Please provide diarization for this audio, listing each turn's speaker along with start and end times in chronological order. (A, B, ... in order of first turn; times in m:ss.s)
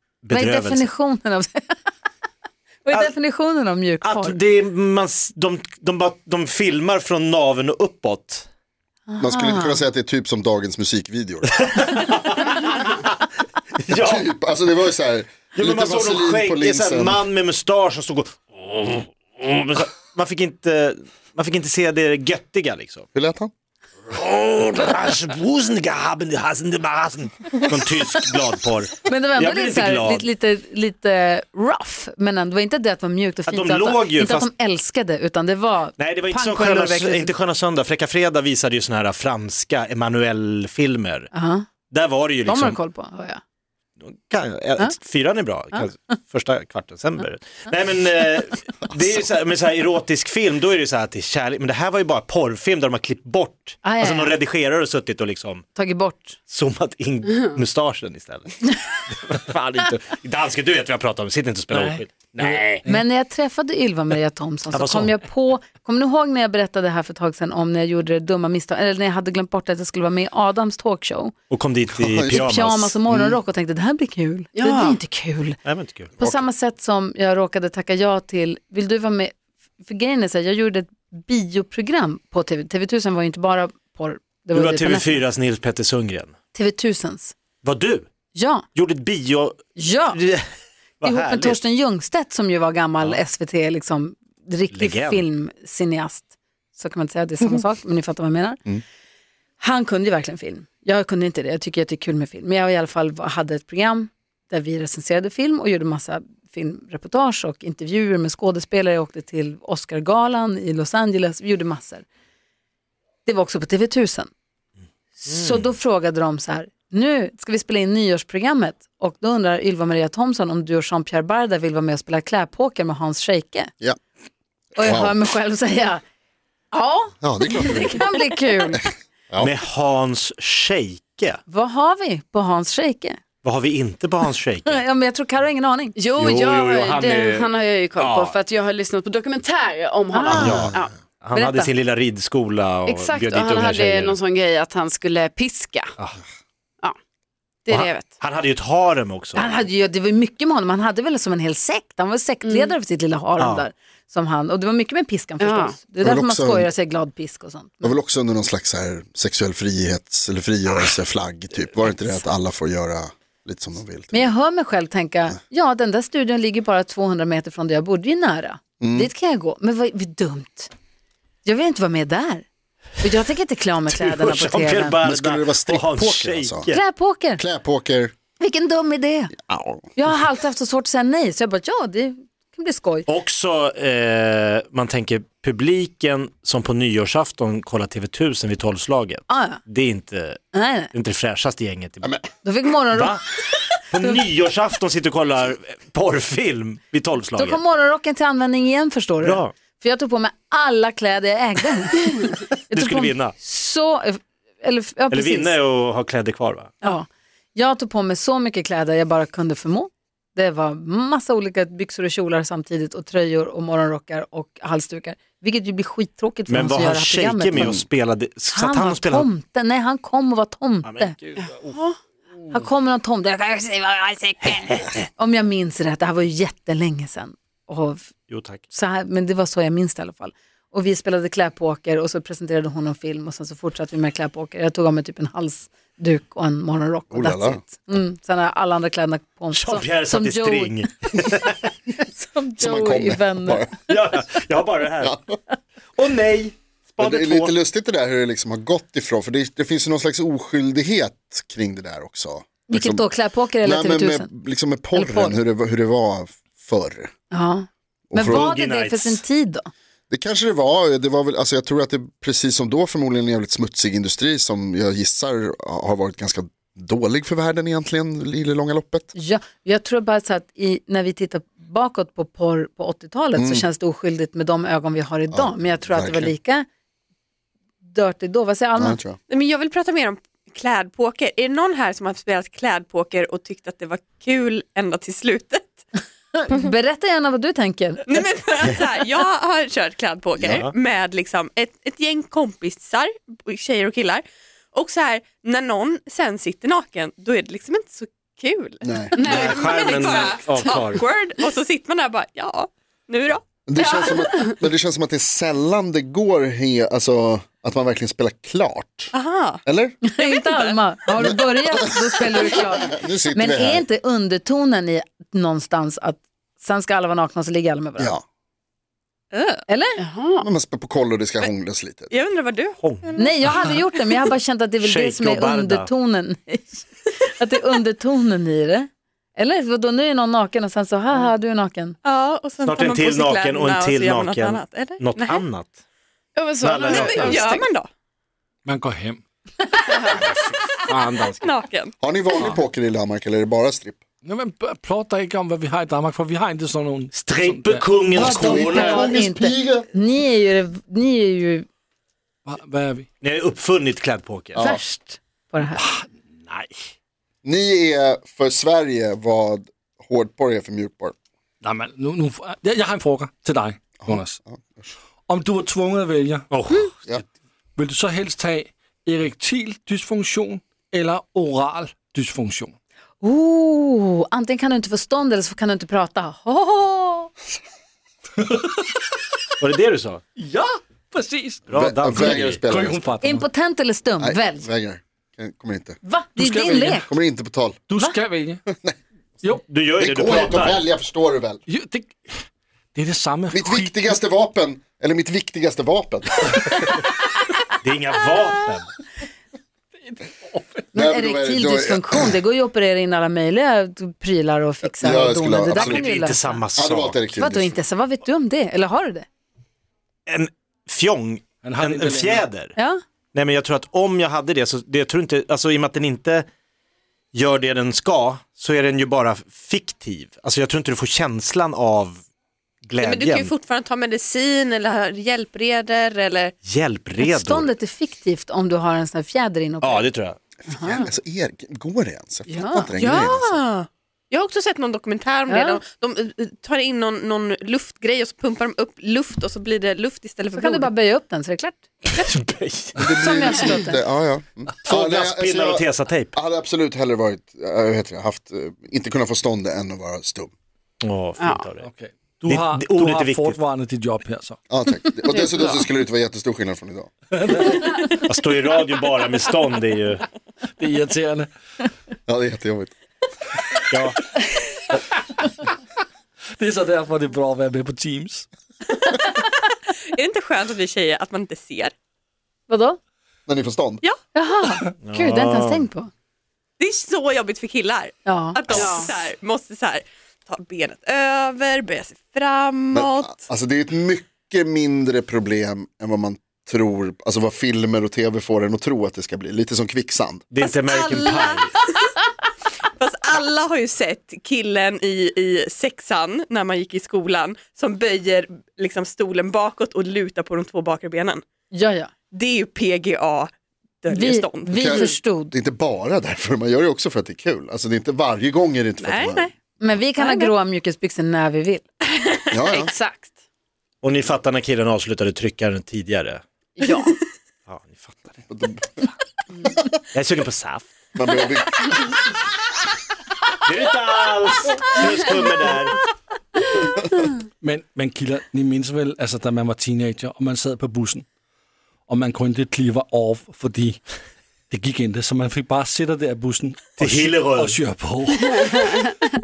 0:00.2-0:00.9 A
0:00.3-0:01.8 B
0:02.8-0:04.4 B
0:04.0-0:08.5 A
0:09.1-0:09.8 B
0:09.2-0:11.5 C
0:11.5-0:13.1 A
0:13.8-0:14.3 A
0:14.0-0:17.2 C
0:15.5-0:23.1 A
0:23.2-0:23.5 C
0:24.1-0:30.3 A
0:29.1-0:37.3 B
0:33.5-0:34.5 A
0:36.0-0:41.3 A
0:41.3-0:41.7 B
0:41.9-0:42.8 A
0:42.5-0:43.4 B
0:44.0-0:55.7 A
0:53.8-0:54.4 B
0:55.8-0:56.4 B
0:56.5-1:02.9 A
0:57.3-0:57.6 D
1:01.7-1:03.0 E
1:02.9-1:11.4 B
1:04.7-1:05.2 A
1:11.5-1:13.0 A
1:12.0-1:12.5 C
1:12.3-1:15.6 B
1:13.1-1:13.4 C
1:14.5-1:15.0 D
1:15.6-1:16.2 A
1:16.2-1:25.2 B
1:24.5-1:26.4 A
1:26.5-1:27.4 B
1:27.6-1:28.1 A
1:28.3-1:28.7 B
1:28.7-1:30.4 A
1:29.8-1:30.2 B
1:31.0-1:31.6 A
1:31.0-1:38.8 B
1:34.7-1:35.2 A
1:39.6-1:52.1 B
1:53.2-1:54.3 B
1:55.2-2:03.7 B
1:55.3-1:55.7 A
2:04.8-2:05.2 C
2:04.8-2:06.0 B
2:06.7-2:08.8 B
2:07.2-2:08.0 C
2:08.7-2:09.5 C
2:09.4-2:11.4 A
2:11.5-2:13.2 B
2:13.4-2:14.8 A
2:14.7-2:16.0 B
2:16.0-2:20.9 D
2:16.2-2:18.3 A
2:20.2-2:20.7 B
2:20.4-2:20.7 C
2:21.2-2:24.2 A
2:21.3-2:21.7 B
2:22.9-2:25.9 D
2:27.6-2:28.1 D
2:27.7-2:29.5 A
2:29.4-2:38.0 B
2:32.4-2:32.7 D
2:33.4-2:33.6 A
2:35.4-2:35.8 D
2:36.0-2:36.7 C
2:37.8-2:44.3 C
2:44.1-2:50.7 B
2:48.8-2:49.1 C
2:51.4-2:52.5 B
2:53.0-2:55.0 B
2:53.9-2:56.8 A
2:55.0-2:56.8 C
2:56.7-2:57.4 B
2:57.4-2:58.1 C
2:58.4-2:59.3 B
2:59.4-2:59.9 C
3:00.0-3:03.1 B
3:03.1-3:10.4 A
3:09.3-3:09.6 B
3:10.5-3:10.9 B
3:10.9-3:12.2 A
3:12.4-3:13.2 B
3:12.9-3:13.2 A
3:13.9-3:17.6 A
3:14.0-3:14.2 B
3:17.4-3:25.5 B
3:19.2-3:19.5 A
3:22.5-3:23.4 A
3:25.1-3:26.7 A
3:26.8-3:37.8 B
3:36.5-3:39.3 A
3:38.5-3:41.2 B
3:40.8-3:41.6 A
3:42.5-3:48.1 B
3:44.4-3:45.1 A
3:48.3-3:48.6 A
3:48.7-4:00.8 B
3:57.1-3:57.6 C
3:59.5-4:01.6 A
4:02.0-4:03.7 B
4:02.6-4:03.7 C
4:03.9-4:05.2 A
4:05.0-4:05.4 C
4:06.0-4:07.6 A
4:07.0-4:13.1 C
4:12.7-4:14.3 B
4:13.6-4:17.1 C
4:14.9-4:15.4 B
4:17.3-4:19.7 B
4:18.1-4:18.5 C
4:18.2-4:19.2 A
4:20.1-4:29.1 C
4:29.2-4:36.7 B
4:33.4-4:33.7 C
4:35.3-4:36.4 C
4:37.8-4:39.0 B
4:38.8-4:39.2 C
4:39.3-4:45.8 F
4:46.4-4:48.2 B
4:48.1-5:03.4 F
4:50.5-4:50.7 A
4:58.8-4:59.2 C
4:59.2-4:59.8 D
4:59.2-5:01.0 A
5:03.7-5:09.1 C
5:09.1-5:09.6 F
5:09.6-5:10.0 C
5:10.0-5:18.2 B
5:10.2-5:10.8 F
5:11.2-5:11.4 C
5:12.0-5:13.8 C
5:19.3-5:19.6 F
5:19.7-5:20.0 B
5:20.0-5:20.5 D
5:20.4-5:22.1 C
5:22.1-5:23.8 F
5:22.8-5:23.6 A
5:23.2-5:32.0 B
5:24.8-5:25.9 A
5:32.0-5:35.4 F
5:32.6-5:35.8 A
5:36.4-5:37.7 D
5:36.6-5:37.5 A
5:37.1-5:37.9 F
5:38.6-5:39.2 E
5:39.8-5:40.2 D
5:40.2-5:41.2 A
5:40.9-5:41.5 E
5:41.4-5:41.9 F
5:42.0-5:44.0 C
5:44.2-5:49.1 E
5:47.1-5:48.9 A
5:48.2-5:49.9 C
5:48.3-5:51.7 B
5:52.4-5:53.1 E
5:53.2-5:54.7 A
5:54.6-5:54.8 C
5:54.6-5:55.9 B
5:55.8-5:56.9 E
5:57.4-6:01.1 C
6:01.6-6:04.4 E
6:04.0-6:05.0 C
6:05.3-6:07.2 E
6:06.5-6:06.9 A
6:07.8-6:12.7 E
6:13.2-6:17.3 B
6:18.4-6:19.1 E
6:19.6-6:20.2 A
6:20.4-6:23.5 E
6:21.7-6:22.6 A
6:21.7-6:23.0 C
6:23.2-6:24.7 B
6:24.2-6:26.0 C
6:26.0-6:27.1 B
6:26.4-6:27.1 E
6:26.9-6:27.8 C
6:27.9-6:28.6 E
6:29.7-6:30.8 A
6:30.0-6:31.6 C
6:31.7-6:34.2 E
6:33.5-6:36.8 C
6:37.8-6:38.9 A
6:40.0-6:40.9 E
6:40.9-6:42.4 C
6:40.9-6:46.6 B
6:45.0-6:46.0 C
6:45.8-6:47.3 A
6:46.8-6:47.8 C
6:47.4-6:49.3 B
6:50.3-6:52.8 A
6:51.6-6:52.5 E
6:53.3-6:56.5 A
6:57.3-7:02.2 A
7:02.8-7:03.5 A
7:03.0-7:06.5 F
7:06.6-7:07.7 A
7:07.2-7:10.1 B
7:09.8-7:10.4 A
7:10.7-7:13.6 C
7:10.8-7:11.0 B
7:12.5-7:12.9 B
7:13.0-7:20.9 F
7:15.5-7:15.8 B
7:20.5-7:21.9 B
7:22.1-7:22.9 A
7:23.0-7:30.5 C
7:23.0-7:24.0 B
7:24.8-7:26.4 A
7:31.0-7:31.9 A
7:31.4-7:31.6 D
7:31.8-7:34.6 E
7:32.4-7:33.6 A
7:34.7-7:37.1 C
7:35.3-7:35.8 D
7:37.3-7:38.1 E
7:38.1-7:40.3 A
7:40.8-7:41.5 E
7:42.3-7:42.9 C
7:43.9-7:44.2 A
7:46.6-7:48.5 E
7:49.6-7:51.9 F
7:52.7-7:53.0 B
7:53.5-7:54.0 C
7:54.4-7:56.1 B
7:55.0-7:55.9 A
7:56.8-8:03.4 F
7:58.3-7:58.8 B
7:58.7-7:59.3 D
8:02.9-8:10.4 C
8:10.5-8:11.7 A
8:10.6-8:12.2 F
8:13.0-8:21.4 F
8:21.7-8:22.1 B
8:22.3-8:23.5 F
8:24.0-8:24.9 F
8:24.1-8:25.5 B
8:24.7-8:29.5 C
8:29.0-8:29.5 F
8:29.8-8:31.8 B
8:32.5-8:32.9 C
8:32.7-8:33.3 D
8:34.0-8:36.4 A
8:36.8-8:37.2 D
8:37.7-8:38.4 A
8:38.5-8:38.8 C
8:40.1-8:40.9 A
8:41.2-8:42.1 C
8:43.7-8:46.0 A
8:47.6-8:51.3 E
8:52.1-8:54.0 E
8:54.7-8:59.1 E
8:57.0-8:57.8 A